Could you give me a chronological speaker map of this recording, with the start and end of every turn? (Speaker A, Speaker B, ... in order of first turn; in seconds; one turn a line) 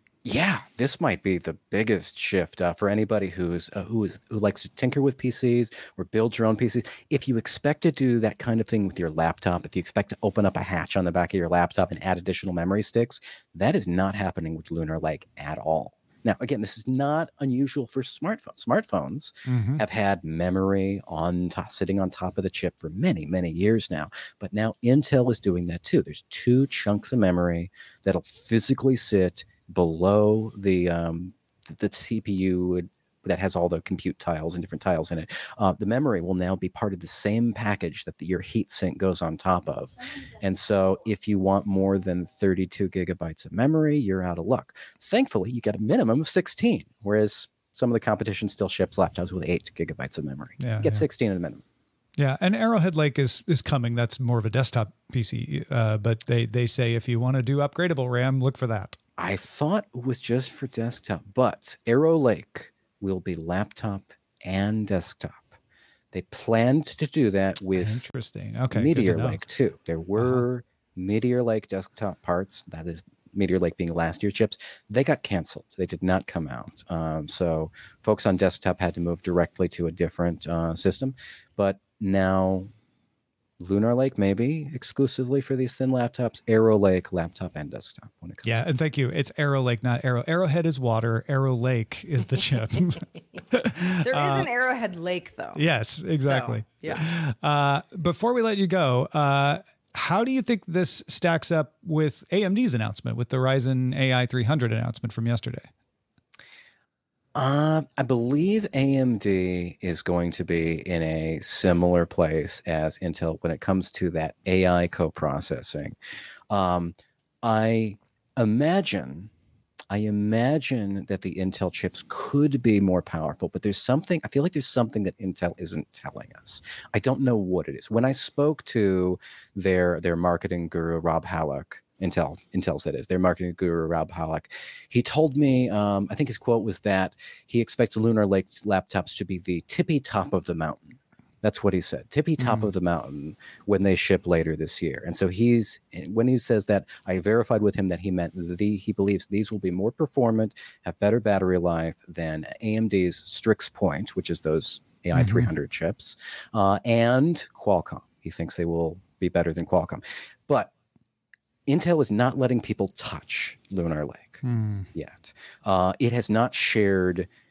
Speaker A: 0.2-51.6
Speaker B: 19.5-19.8
Speaker B: 50.6-51.0
Speaker B: 52.2-59.0
Speaker A: 59.2-65.5
Speaker A: 66.1-68.0
Speaker B: 67.8-69.4
Speaker A: 68.7-82.7
Speaker A: 83.6-88.6
Speaker B: 88.4-94.5
Speaker C: 94.0-95.6
Speaker B: 95.5-105.7
Speaker C: 96.2-97.0
Speaker A: 107.3-116.0
Speaker A: 116.5-119.3
Speaker A: 119.9-160.7
Speaker B: 142.4-142.7
Speaker B: 155.2-155.5
Speaker A: 161.7-167.3
Speaker B: 164.4-164.9